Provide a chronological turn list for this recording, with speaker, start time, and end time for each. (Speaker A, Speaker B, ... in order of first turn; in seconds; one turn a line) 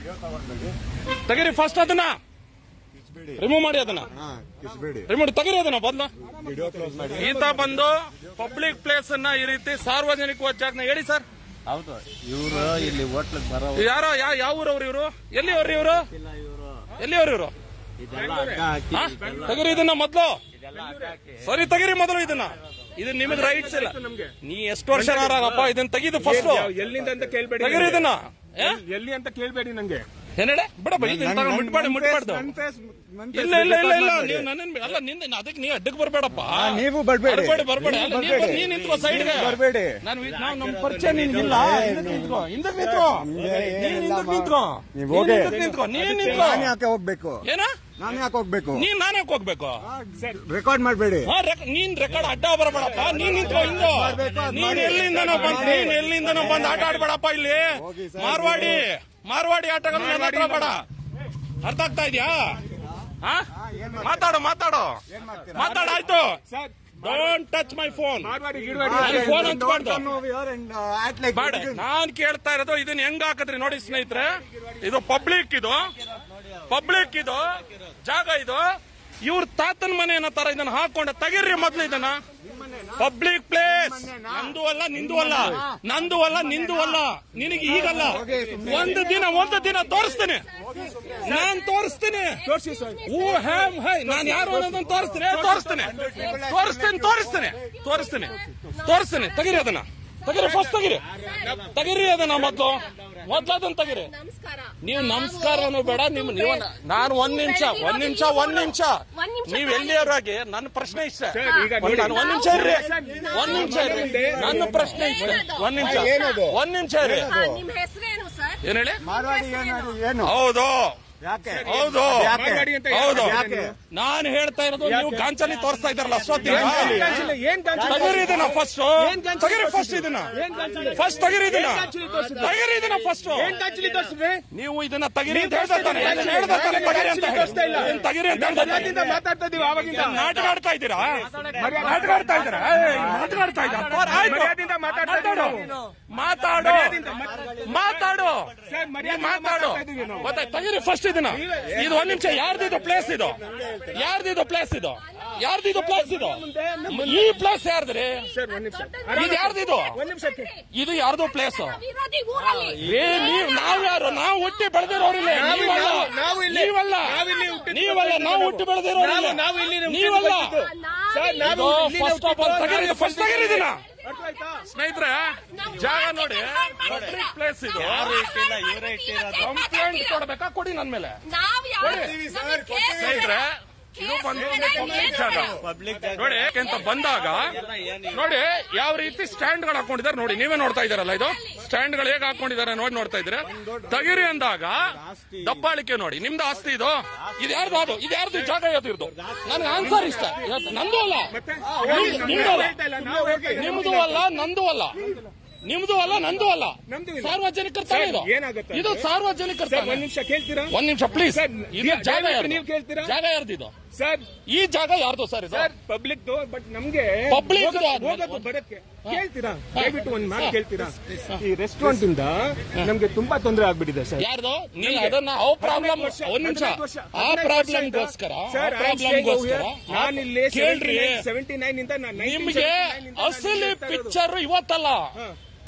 Speaker A: 1.3-2.2
Speaker B: 3.0-3.4
Speaker A: 3.4-4.1
Speaker B: 4.1-5.1
Speaker A: 5.1-6.1
Speaker B: 6.4-7.4
Speaker C: 6.5-7.5
Speaker A: 7.2-11.2
Speaker D: 11.7-13.9
Speaker A: 13.7-16.1
Speaker D: 16.1-16.9
Speaker A: 17.0-17.5
Speaker D: 18.0-19.7
Speaker C: 18.1-19.5
Speaker A: 18.9-20.4
Speaker D: 20.6-21.4
Speaker C: 20.7-21.2
Speaker A: 21.4-26.7
Speaker C: 23.2-24.3
Speaker C: 24.9-25.6
Speaker C: 26.2-30.1
Speaker A: 27.6-28.8
Speaker A: 30.4-32.5
Speaker B: 31.0-34.5
Speaker A: 33.3-46.7
Speaker B: 36.4-40.0
Speaker D: 38.2-39.5
Speaker D: 40.2-42.0
Speaker B: 41.5-42.5
Speaker B: 43.1-45.6
Speaker D: 43.4-43.8
Speaker C: 45.5-46.6
Speaker B: 46.2-47.5
Speaker A: 47.4-47.7
Speaker B: 48.0-48.9
Speaker A: 48.7-49.8
Speaker B: 49.8-51.3
Speaker A: 51.2-60.8
Speaker B: 53.0-56.9
Speaker D: 54.2-54.9
Speaker B: 57.8-58.9
Speaker C: 59.9-60.8
Speaker A: 61.6-62.5
Speaker A: 63.2-63.5
Speaker B: 63.5-64.2
Speaker A: 64.0-65.0
Speaker B: 65.1-66.0
Speaker A: 65.5-66.4
Speaker C: 66.5-67.3
Speaker A: 67.0-68.4
Speaker C: 68.2-69.5
Speaker B: 68.8-71.8
Speaker A: 69.0-70.0
Speaker A: 71.3-75.9
Speaker A: 76.7-77.5
Speaker A: 78.0-78.7
Speaker A: 79.2-82.2
Speaker B: 82.4-83.1
Speaker A: 83.0-90.4
Speaker B: 83.6-85.8
Speaker B: 86.5-86.9
Speaker B: 87.6-89.3
Speaker B: 90.6-91.5
Speaker A: 91.2-92.4
Speaker E: 92.5-93.6
Speaker C: 92.5-93.0
Speaker A: 93.0-101.0
Speaker C: 94.1-95.7
Speaker B: 95.3-97.7
Speaker E: 97.8-99.7
Speaker D: 101.1-103.4
Speaker E: 101.2-101.6
Speaker C: 101.5-101.7
Speaker A: 101.7-104.1
Speaker E: 104.0-110.1
Speaker A: 104.8-117.3
Speaker C: 111.3-114.6
Speaker E: 111.4-112.7
Speaker B: 112.5-115.0
Speaker E: 113.2-113.9
Speaker E: 114.5-116.4
Speaker C: 115.1-115.4
Speaker B: 115.8-117.6
Speaker E: 117.1-120.0
Speaker A: 118.6-119.0
Speaker B: 119.0-120.3
Speaker A: 120.2-121.0
Speaker B: 121.2-123.7
Speaker C: 121.5-123.7
Speaker A: 121.7-122.4
Speaker A: 122.9-127.2
Speaker C: 124.8-125.5
Speaker C: 126.4-128.4
Speaker B: 126.5-128.6
Speaker A: 127.8-130.3
Speaker C: 129.0-132.6
Speaker A: 130.9-133.6
Speaker D: 132.2-132.6
Speaker C: 133.3-134.4
Speaker D: 133.7-134.0
Speaker A: 134.5-138.9
Speaker C: 135.3-140.3
Speaker D: 135.9-137.8
Speaker D: 138.8-140.6
Speaker A: 139.9-141.3
Speaker D: 141.1-144.2
Speaker C: 141.5-143.1
Speaker A: 141.8-147.0
Speaker C: 144.2-145.8
Speaker C: 146.6-150.4
Speaker D: 147.1-147.8
Speaker A: 147.6-153.4
Speaker C: 151.3-152.4
Speaker B: 153.4-153.9
Speaker A: 153.9-158.3
Speaker E: 155.2-155.5
Speaker C: 155.7-157.3
Speaker C: 158.3-160.5
Speaker E: 158.5-160.6
Speaker A: 159.1-160.0
Speaker A: 160.7-161.8
Speaker E: 161.6-166.5
Speaker D: 162.4-163.2
Speaker A: 162.8-170.6
Speaker C: 165.3-174.6
Speaker E: 167.1-167.8
Speaker E: 170.5-171.8
Speaker A: 171.4-173.8
Speaker E: 173.0-174.2
Speaker A: 174.7-178.2
Speaker E: 175.5-177.3
Speaker D: 176.8-177.2
Speaker D: 177.8-179.5
Speaker E: 177.9-180.2
Speaker A: 179.4-181.2
Speaker E: 181.2-183.4
Speaker A: 181.8-182.2
Speaker B: 181.8-183.3
Speaker A: 182.9-185.6
Speaker E: 184.0-185.6
Speaker B: 184.5-185.4
Speaker D: 185.6-188.2
Speaker A: 186.2-187.6
Speaker A: 188.1-202.8
Speaker D: 197.2-197.7
Speaker D: 199.2-199.9
Speaker C: 201.3-204.2
Speaker B: 201.7-203.7
Speaker A: 203.5-205.0
Speaker A: 205.6-210.1
Speaker C: 206.9-209.1
Speaker C: 209.7-213.2
Speaker A: 210.7-213.7
Speaker C: 213.9-214.3
Speaker A: 214.5-215.7
Speaker C: 215.5-224.3
Speaker A: 217.3-218.5
Speaker A: 219.7-220.6
Speaker A: 224.2-231.2
Speaker C: 224.8-234.2
Speaker A: 232.2-235.1